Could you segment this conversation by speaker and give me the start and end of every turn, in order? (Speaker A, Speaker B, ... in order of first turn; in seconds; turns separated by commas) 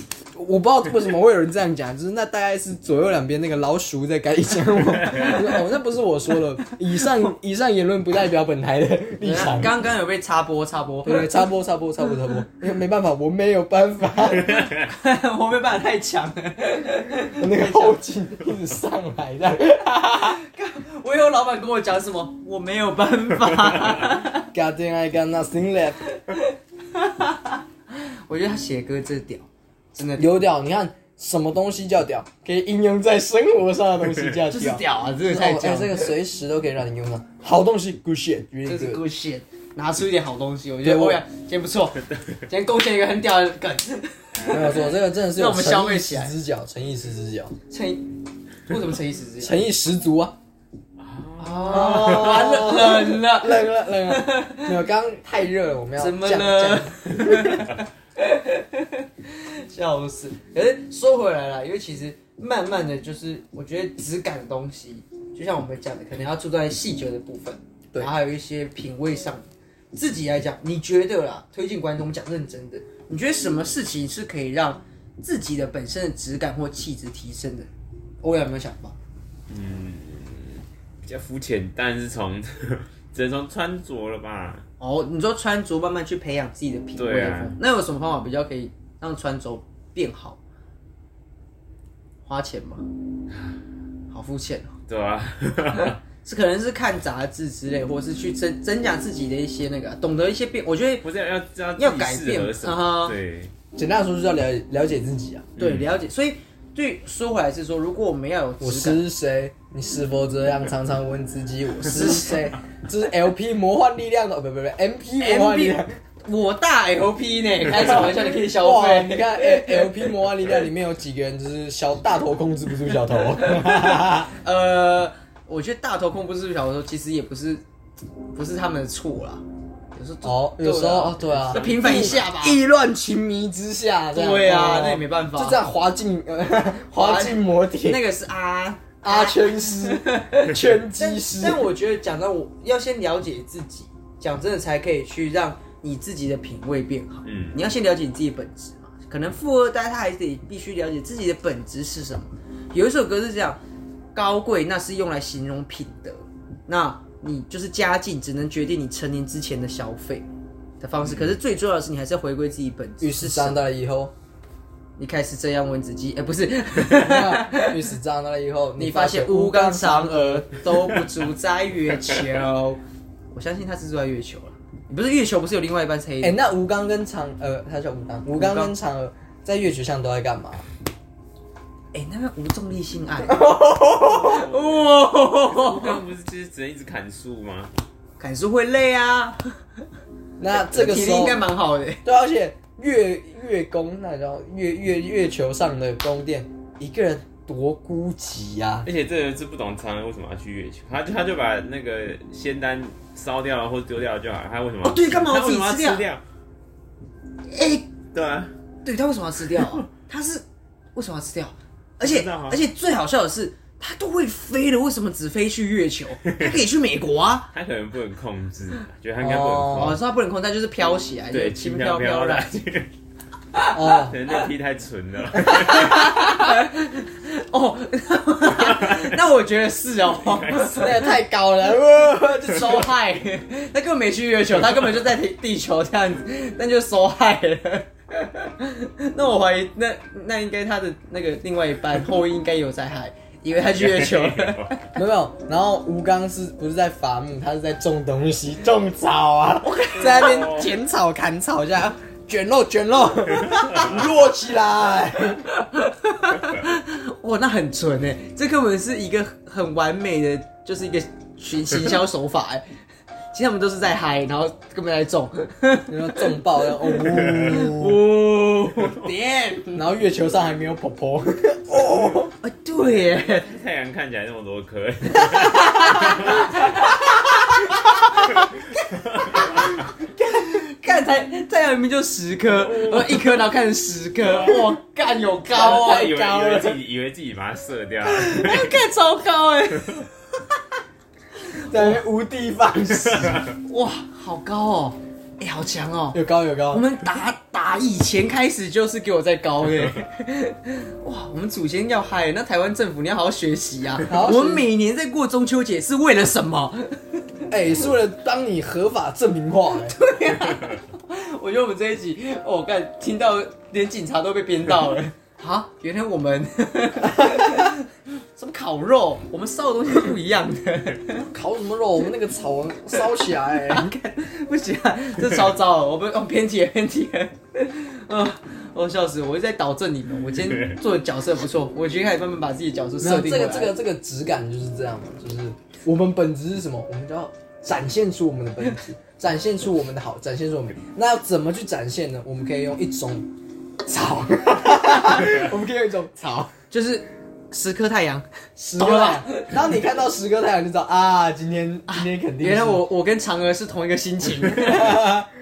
Speaker A: 0.3-9.8, Speaker B: 9.2-11.3, Speaker A: 11.0-14.7, Speaker B: 14.5-18.0, Speaker A: 17.3-20.4, Speaker B: 20.2-24.5, Speaker A: 24.5-26.0, Speaker B: 26.3-30.3, Speaker A: 30.2-39.0, Speaker B: 34.5-36.1, Speaker B: 38.7-46.3, Speaker A: 40.8-41.2, Speaker A: 44.5-47.6, Speaker B: 47.7-48.1, Speaker B: 48.7-49.5, Speaker A: 49.4-50.4, Speaker C: 51.0-52.3, Speaker B: 51.4-54.8, Speaker A: 51.7-57.6, Speaker B: 56.0-77.7, Speaker B: 78.2-79.0, Speaker C: 79.5-84.6, Speaker B: 84.8-90.4, Speaker C: 87.0-87.6, Speaker B: 92.2-92.9, Speaker B: 94.1-94.8, Speaker C: 94.9-96.0, Speaker B: 95.8-101.1, Speaker C: 101.0-103.5, Speaker B: 101.8-103.2, Speaker A: 103.8-105.5, Speaker C: 105.6-105.9, Speaker B: 105.6-109.0, Speaker A: 108.6-115.9, Speaker B: 111.9-112.3, Speaker B: 115.2-120.0, Speaker A: 117.8-124.3, Speaker B: 124.3-127.6, Speaker B: 128.3-129.4, Speaker B: 129.9-132.6, Speaker A: 130.2-138.0, Speaker C: 131.5-132.2, Speaker B: 134.1-135.6, Speaker B: 137.0-153.6, Speaker A: 139.0-141.7, Speaker C: 147.2-147.6, Speaker B: 154.1-160.3, Speaker B: 160.8-163.6, Speaker C: 161.1-161.3, Speaker A: 163.0-164.1, Speaker B: 165.0-167.8, Speaker A: 166.9-170.5, Speaker B: 168.8-176.4, Speaker A: 176.2-180.7, Speaker B: 178.3-178.7, Speaker B: 181.9-183.4, Speaker A: 183.2-184.4, Speaker B: 184.0-186.0, Speaker C: 184.1-187.7, Speaker B: 188.2-189.4, Speaker A: 190.4-191.4, Speaker B: 190.5-192.0, Speaker A: 192.0-198.9, Speaker C: 198.8-206.2, Speaker B: 204.8-206.1, Speaker B: 207.5-207.9, Speaker C: 208.1-208.5, Speaker B: 208.8-210.4, Speaker B: 211.0-217.5, Speaker C: 212.0-212.6, Speaker C: 216.3-216.6, Speaker C: 217.5-220.0, Speaker A: 219.2-220.0, Speaker B: 219.7-222.6, Speaker C: 221.3-222.9, Speaker A: 223.7-224.2, Speaker C: 223.9-226.1, Speaker B: 225.5-231.0, Speaker A: 225.7-226.5, Speaker C: 228.6-229.1, Speaker C: 230.2-230.9, Speaker A: 230.8-232.8, Speaker B: 232.4-244.8, Speaker C: 243.7-244.8, Speaker A: 245.0-255.5, Speaker B: 249.6-250.7, Speaker C: 250.2-250.7, Speaker B: 255.5-262.7, Speaker B: 263.3-269.9, Speaker A: 265.9-268.0, Speaker C: 268.8-269.1, Speaker A: 269.8-272.3, Speaker B: 272.3-273.5, Speaker C: 273.0-276.7, Speaker B: 275.2-278.4, Speaker B: 279.0-286.8, Speaker C: 279.3-279.7, Speaker C: 284.2-284.8, Speaker C: 285.5-288.8, Speaker B: 288.1-290.1, Speaker B: 291.7-292.0, Speaker A: 291.7-293.4, Speaker B: 293.6-307.2, Speaker A: 296.1-296.8, Speaker A: 304.1-304.7, Speaker A: 307.5-310.0, Speaker B: 309.9-321.3, Speaker A: 317.2-317.5, Speaker A: 321.3-323.9, Speaker B: 323.7-333.8, Speaker C: 330.4-330.8, Speaker A: 333.0-343.3, Speaker A: 343.9-346.5, Speaker B: 346.5-349.7, Speaker A: 348.6-352.8, Speaker B: 351.9-355.1, Speaker A: 354.5-355.3